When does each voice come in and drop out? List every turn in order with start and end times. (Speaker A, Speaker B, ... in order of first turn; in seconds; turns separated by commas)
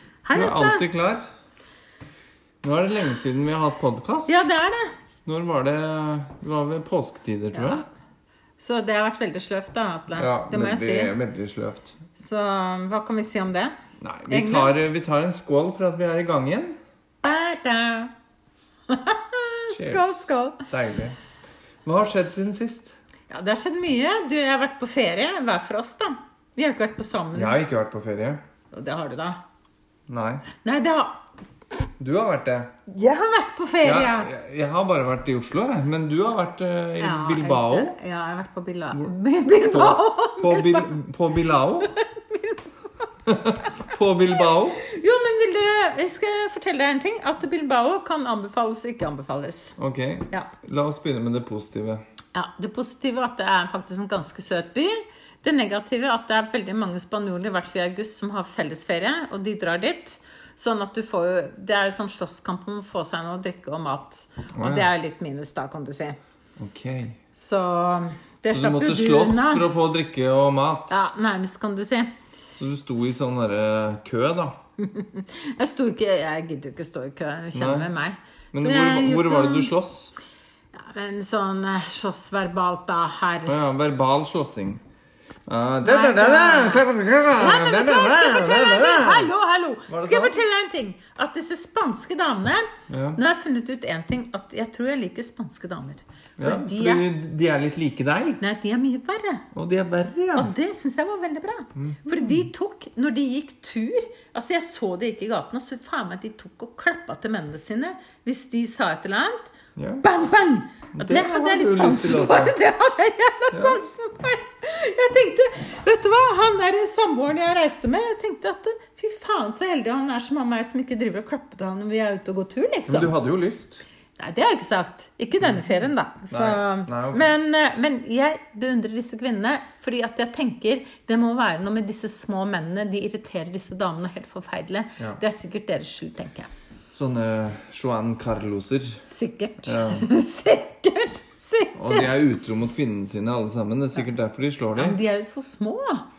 Speaker A: 0.2-0.8, Speaker B: 0.3-1.2, Speaker B: 2.6-4.5, Speaker A: 4.3-4.9, Speaker B: 5.2-7.8, Speaker A: 7.5-7.8, Speaker A: 8.6-11.1, Speaker B: 10.2-11.9, Speaker A: 12.1-13.7, Speaker B: 14.0-16.8, Speaker A: 14.3-14.7, Speaker A: 17.2-18.1, Speaker A: 18.9-20.6, Speaker B: 19.7-21.1, Speaker B: 21.8-23.0, Speaker A: 23.3-27.6, Speaker B: 27.3-28.4, Speaker A: 28.7-29.4, Speaker B: 30.1-30.4, Speaker A: 30.6-31.2, Speaker B: 32.0-32.7, Speaker A: 32.9-34.3, Speaker B: 33.8-37.9, Speaker A: 37.0-40.9, Speaker B: 39.7-41.9, Speaker A: 41.8-42.6, Speaker B: 43.2-44.8, Speaker A: 44.8-49.8, Speaker B: 49.8-52.0, Speaker A: 52.3-66.2, Speaker B: 64.5-64.9, Speaker B: 66.6-67.2, Speaker A: 67.3-69.7, Speaker B: 68.5-71.0, Speaker A: 70.9-72.1, Speaker B: 72.6-74.5, Speaker A: 74.8-79.7, Speaker B: 77.5-77.9, Speaker B: 78.5-80.1, Speaker A: 80.7-83.6, Speaker B: 83.5-84.8, Speaker B: 85.5-89.3, Speaker A: 85.8-97.0, Speaker B: 89.9-90.4, Speaker B: 92.9-93.2, Speaker B: 96.4-98.4, Speaker A: 98.4-99.4, Speaker B: 99.5-100.5, Speaker A: 100.3-123.1, Speaker B: 101.7-102.5, Speaker B: 109.8-110.0, Speaker B: 111.0-112.5, Speaker B: 113.5-113.8, Speaker B: 122.9-123.8, Speaker A: 124.2-136.5, Speaker B: 126.3-127.3, Speaker B: 136.9-139.0, Speaker A: 139.0-142.1, Speaker B: 139.6-140.1, Speaker B: 141.7-145.0, Speaker A: 144.8-146.0